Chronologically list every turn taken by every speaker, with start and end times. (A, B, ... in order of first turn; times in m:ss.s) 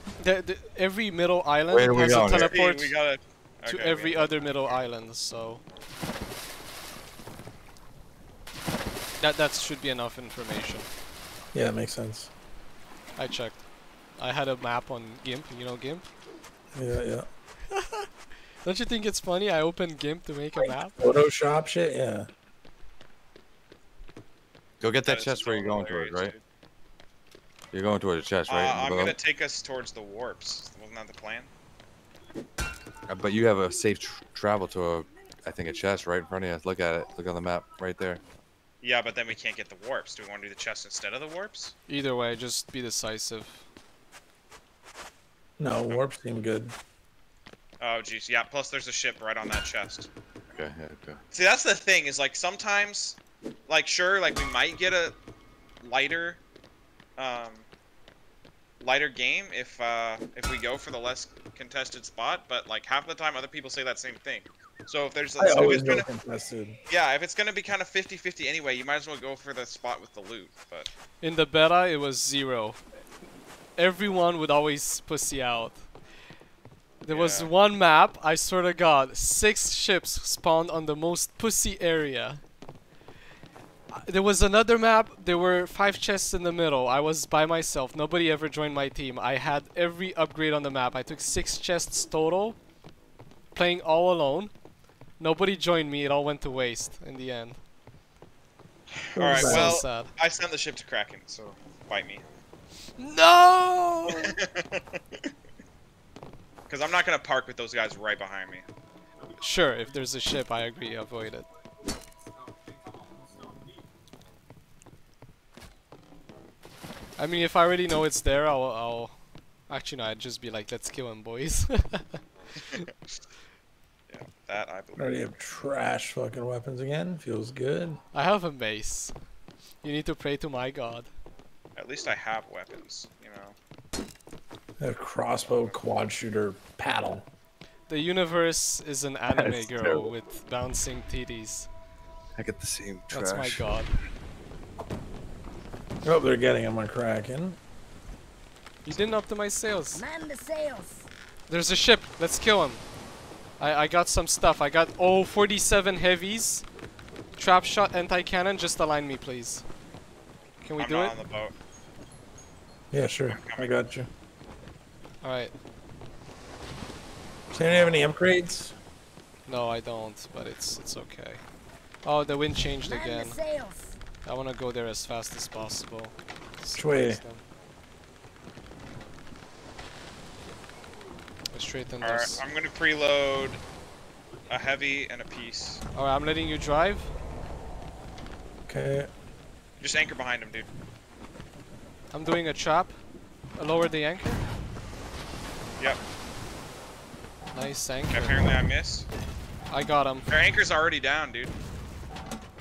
0:00.2-0:02.9 A
0:01.7-0:02.5 B
0:02.3-0:04.8 C
0:03.6-0:05.6 A
0:09.2-0:10.9 A
0:11.5-0:12.3 D
0:13.2-0:13.6 A
0:14.2-0:16.0 A
0:16.7-0:17.3 D
0:17.7-0:18.0 A
0:18.6-0:21.0 A
0:20.6-0:22.3 D
0:24.8-0:26.3 B
0:25.0-0:26.4 C
0:27.7-0:29.2 B
0:28.5-0:31.5 C
0:33.1-0:38.2 B
0:38.8-0:41.7 C
0:41.9-0:43.6 A
0:45.6-0:46.7 D
0:47.8-0:50.1 C
0:50.5-0:51.2 B
0:51.3-0:55.2 C
0:55.8-0:56.4 C
0:57.2-0:57.6 C
0:58.8-1:06.1 C
1:05.4-1:06.8 D
1:06.9-1:10.9 C
1:11.2-1:12.8 A
1:13.8-1:15.8 A
1:17.0-1:22.4 A
1:17.1-1:17.5 C
1:23.9-1:32.6 A
1:33.5-1:34.5 A
1:35.2-1:37.6 A
1:39.1-1:42.2 C
1:39.2-1:39.8 D
1:39.2-1:40.1 A
1:43.0-1:44.3 A
1:44.1-1:45.3 C
1:46.7-1:48.6 C
1:49.4-1:51.5 A
1:57.2-1:59.1 A
1:59.7-2:02.2 A
2:04.1-2:05.3 C
2:05.0-2:08.0 D
2:08.1-2:09.1 A
2:09.8-2:11.1 A
2:11.8-2:13.5 C
2:14.8-2:17.2 D
2:15.4-2:15.8 C
2:17.9-2:21.7 A
2:19.3-2:20.1 B
2:22.4-2:23.6 B
2:23.1-2:24.0 A
2:26.0-2:27.6 D
2:28.8-2:30.0 A
2:29.9-2:31.1 E
2:31.5-2:32.8 A
2:33.6-2:36.6 A
2:37.4-2:39.6 A
2:40.6-2:41.2 A
2:40.8-2:41.5 C
2:42.9-2:44.1 D
2:43.3-2:43.8 C
2:45.2-2:45.5 A
2:47.5-2:48.7 D
2:49.4-2:51.4 A
2:52.0-2:53.4 A
2:52.8-2:54.0 E
2:54.1-2:57.4 A
2:56.7-2:57.2 D
3:01.5-3:02.4 A
3:02.0-3:03.6 C
3:04.5-3:05.8 C
3:05.9-3:07.1 A
3:08.7-3:09.1 D
3:09.8-3:10.7 C
3:12.1-3:12.9 A
3:13.6-3:14.4 A
3:17.5-3:18.6 A
3:18.1-3:19.1 C
3:19.7-3:20.3 A
3:20.3-3:21.5 C